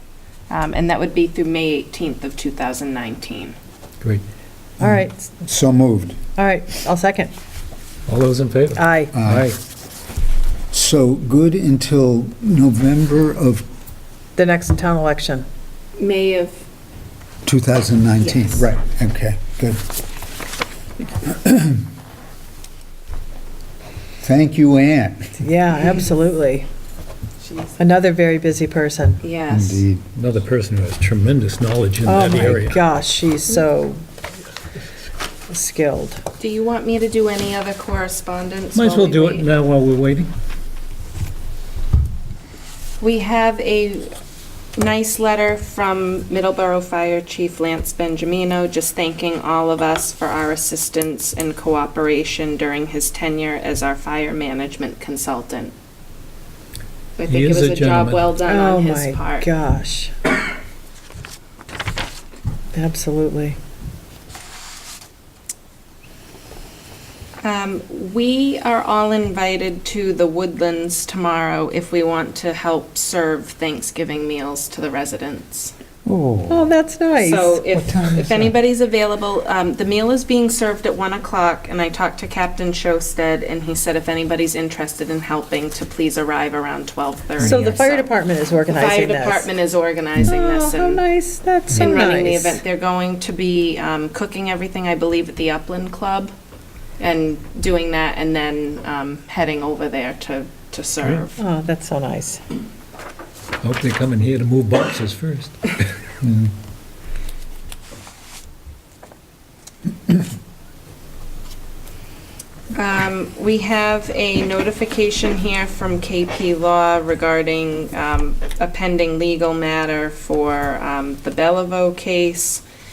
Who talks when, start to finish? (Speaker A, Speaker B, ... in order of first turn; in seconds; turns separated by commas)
Speaker A: 0.5-3.5, Speaker B: 4.8-5.2, Speaker C: 4.8-6.2, Speaker B: 6.3-7.3, Speaker D: 8.1-9.6, Speaker B: 8.8-9.1, Speaker C: 9.1-9.5, Speaker C: 10.7-13.6, Speaker B: 14.3-15.4, Speaker A: 16.0-16.6, Speaker C: 17.4-19.8, Speaker A: 18.2-18.6, Speaker C: 21.2-21.8, Speaker C: 24.2-25.4, Speaker B: 25.4-26.7, Speaker A: 27.4-27.8, Speaker B: 27.8-29.2, Speaker A: 29.2-29.8, Speaker C: 29.5-30.0, Speaker D: 30.1-32.8, Speaker B: 32.0-34.0, Speaker B: 35.5-36.2, Speaker A: 36.4-39.5, Speaker D: 38.7-40.3, Speaker A: 43.0-44.1, Speaker A: 44.8-55.7, Speaker A: 57.2-59.5, Speaker D: 57.3-58.3, Speaker B: 58.4-60.3, Speaker B: 62.7-63.6, Speaker A: 67.4-75.7, Speaker C: 76.0-76.7, Speaker B: 76.5-77.6, Speaker A: 77.2-88.1, Speaker C: 77.7-78.6, Speaker B: 87.4-89.5, Speaker A: 88.7-91.0, Speaker B: 90.2-92.6, Speaker A: 91.7-96.3, Speaker A: 97.0-101.4, Speaker B: 101.4-102.4, Speaker D: 103.6-105.8, Speaker C: 106.2-106.5, Speaker A: 112.7-122.6